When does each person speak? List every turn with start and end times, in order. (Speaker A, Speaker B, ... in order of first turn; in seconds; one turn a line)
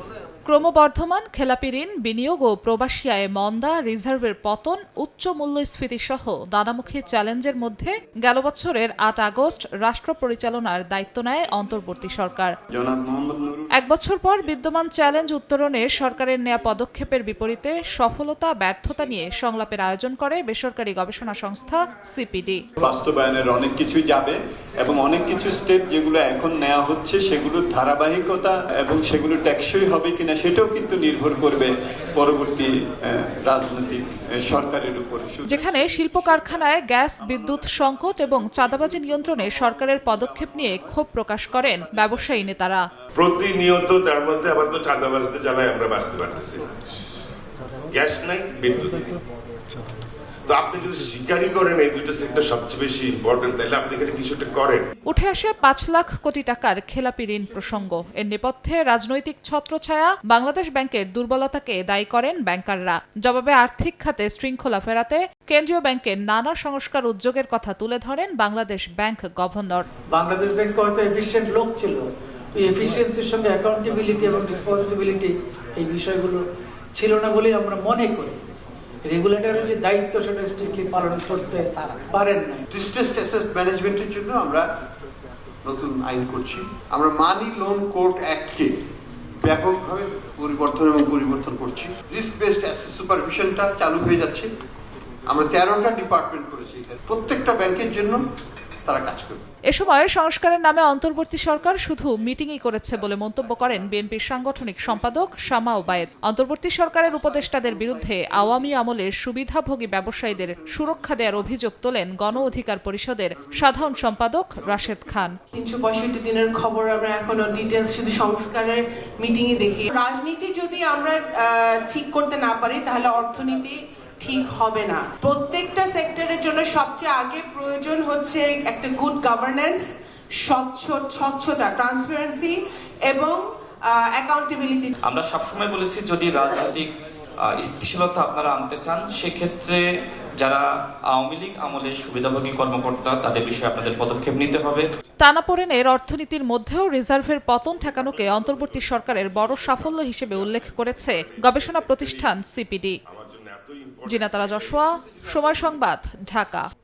Speaker A: 0.5-12.5
Speaker B: 12.7-13.7
Speaker A: 13.8-22.6
Speaker B: 22.8-36.6
Speaker A: 35.5-42.8
Speaker B: 37.2-41.1
Speaker B: 41.6-42.4
Speaker C: 43.2-46.6
Speaker C: 47.9-49.0
Speaker C: 50.5-54.9
Speaker A: 55.1-69.9
Speaker D: 70.1-76.4
Speaker D: 77.0-78.4
Speaker D: 79.1-82.6
Speaker E: 82.7-84.7
Speaker E: 85.7-88.7
Speaker E: 89.4-94.5
Speaker E: 95.3-98.2
Speaker E: 98.9-99.4
Speaker A: 99.7-115.3
Speaker E: 107.0-108.7
Speaker E: 110.6-111.5
Speaker E: 113.5-114.0
Speaker E: 114.7-115.3
Speaker F: 115.5-129.9
Speaker F: 130.4-134.9
Speaker G: 135.1-136.9
Speaker G: 137.6-139.8
Speaker G: 141.1-144.9
Speaker A: 145.2-153.0
Speaker C: 147.9-152.4
Speaker C: 153.1-154.8
Speaker A: 154.1-156.7
Speaker E: 154.8-155.8